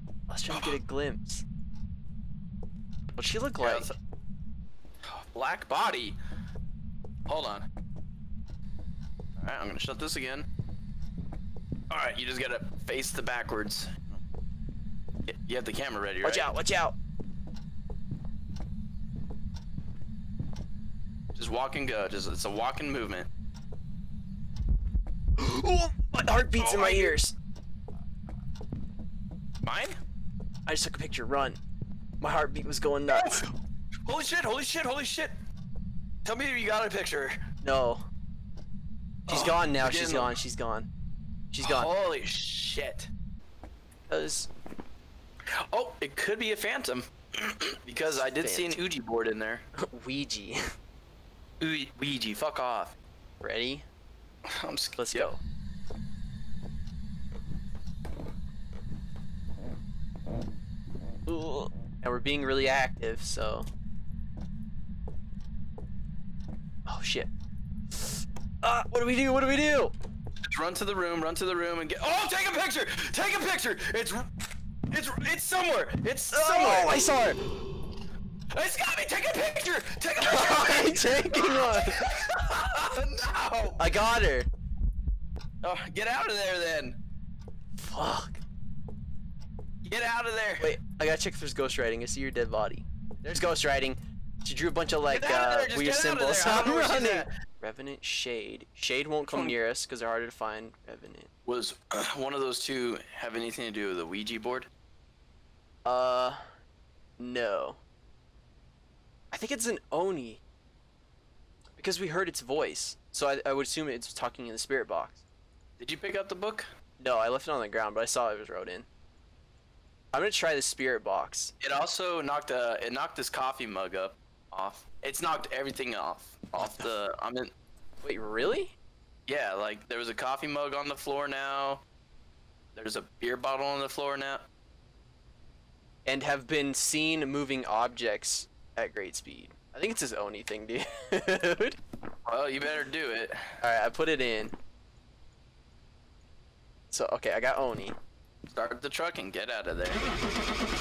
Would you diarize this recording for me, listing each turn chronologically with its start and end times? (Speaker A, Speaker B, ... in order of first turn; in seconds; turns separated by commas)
Speaker A: 0.3-1.4, Speaker B: 0.5-0.8, Speaker A: 3.1-3.9, Speaker B: 3.6-4.0, Speaker B: 5.0-6.2, Speaker B: 7.3-7.7, Speaker B: 9.4-10.5, Speaker B: 11.9-14.2, Speaker B: 15.3-16.5, Speaker A: 16.2-16.9, Speaker B: 21.4-23.3, Speaker A: 25.4-27.4, Speaker B: 26.6-27.2, Speaker B: 29.6-30.0, Speaker A: 30.7-31.6, Speaker A: 32.2-33.5, Speaker B: 33.1-33.4, Speaker B: 34.1-35.4, Speaker B: 36.2-37.4, Speaker A: 37.6-38.0, Speaker B: 39.3-40.4, Speaker A: 39.3-40.9, Speaker A: 41.5-41.9, Speaker B: 41.6-43.1, Speaker A: 44.1-44.5, Speaker B: 45.6-49.6, Speaker A: 48.0-48.8, Speaker A: 49.8-50.6, Speaker B: 51.6-53.0, Speaker A: 53.4-53.9, Speaker B: 54.5-55.3, Speaker A: 55.0-55.4, Speaker A: 61.3-63.7, Speaker A: 66.9-67.3, Speaker A: 67.9-69.9, Speaker B: 70.4-77.0, Speaker A: 76.3-77.5, Speaker B: 78.5-83.9, Speaker A: 80.2-82.1, Speaker A: 83.8-84.5, Speaker B: 85.6-87.0, Speaker A: 87.8-88.4, Speaker B: 89.8-90.7, Speaker A: 90.6-101.3, Speaker B: 95.1-97.3, Speaker B: 99.3-99.6, Speaker B: 101.5-104.7, Speaker A: 105.8-106.4, Speaker A: 107.2-107.8, Speaker A: 109.3-110.4, Speaker A: 111.8-115.2, Speaker B: 115.8-116.7, Speaker A: 117.0-118.9, Speaker A: 120.1-121.5, Speaker B: 121.6-127.5, Speaker A: 126.6-126.9, Speaker A: 128.0-128.8, Speaker B: 129.3-131.8, Speaker B: 132.8-134.5, Speaker A: 136.1-141.8, Speaker B: 142.3-143.6, Speaker A: 143.6-144.6, Speaker A: 146.9-148.0, Speaker B: 148.5-150.4